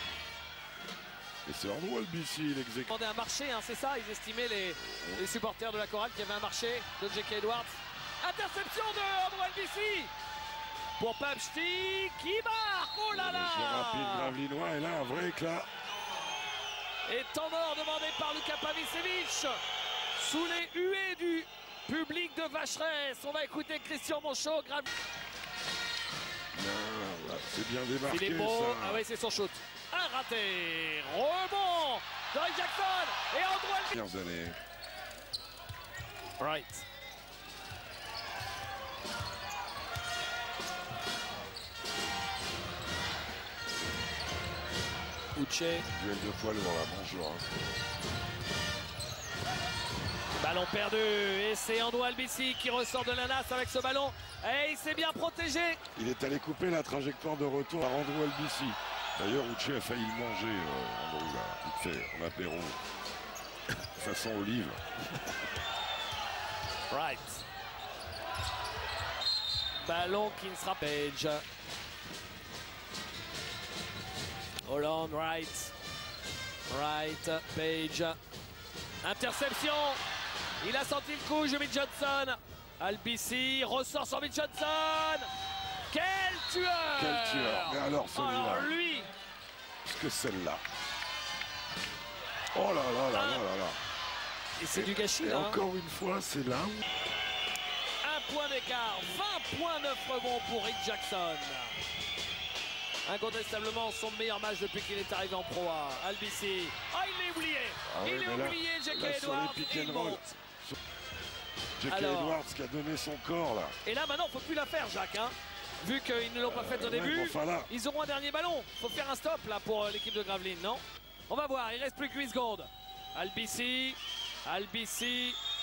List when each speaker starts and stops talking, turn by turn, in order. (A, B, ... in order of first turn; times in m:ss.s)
0:01.4-0:03.0 A
0:02.9-0:10.1 B
0:04.8-0:05.3 A
0:11.0-0:14.4 B
0:13.1-0:15.7 A
0:17.1-0:19.6 B
0:20.2-0:24.9 B
0:26.6-0:29.0 A
0:28.1-0:33.9 B
0:33.9-0:34.6 A
0:36.4-0:36.8 B
0:45.4-0:45.8 B
0:45.9-0:47.5 A
0:50.4-0:55.8 B
0:55.9-1:02.8 A
1:04.0-1:04.8 A
1:06.9-1:07.4 B
1:09.8-1:11.4 B
1:14.7-1:15.7 B
1:16.7-1:18.2 B
1:19.0-1:20.0 B
1:20.6-1:25.3 B
1:25.9-1:29.1 B
1:26.9-1:28.7 A
1:29.8-1:30.6 A
1:32.5-1:33.8 A
1:33.1-1:33.4 B
1:34.6-1:35.6 B
1:34.7-1:36.8 A
1:38.0-1:41.8 B
1:43.0-1:50.3 B
1:47.9-1:50.8 A
1:51.8-1:53.8 A
1:51.9-1:52.4 B
1:53.8-2:05.4 B
1:56.4-1:57.7 A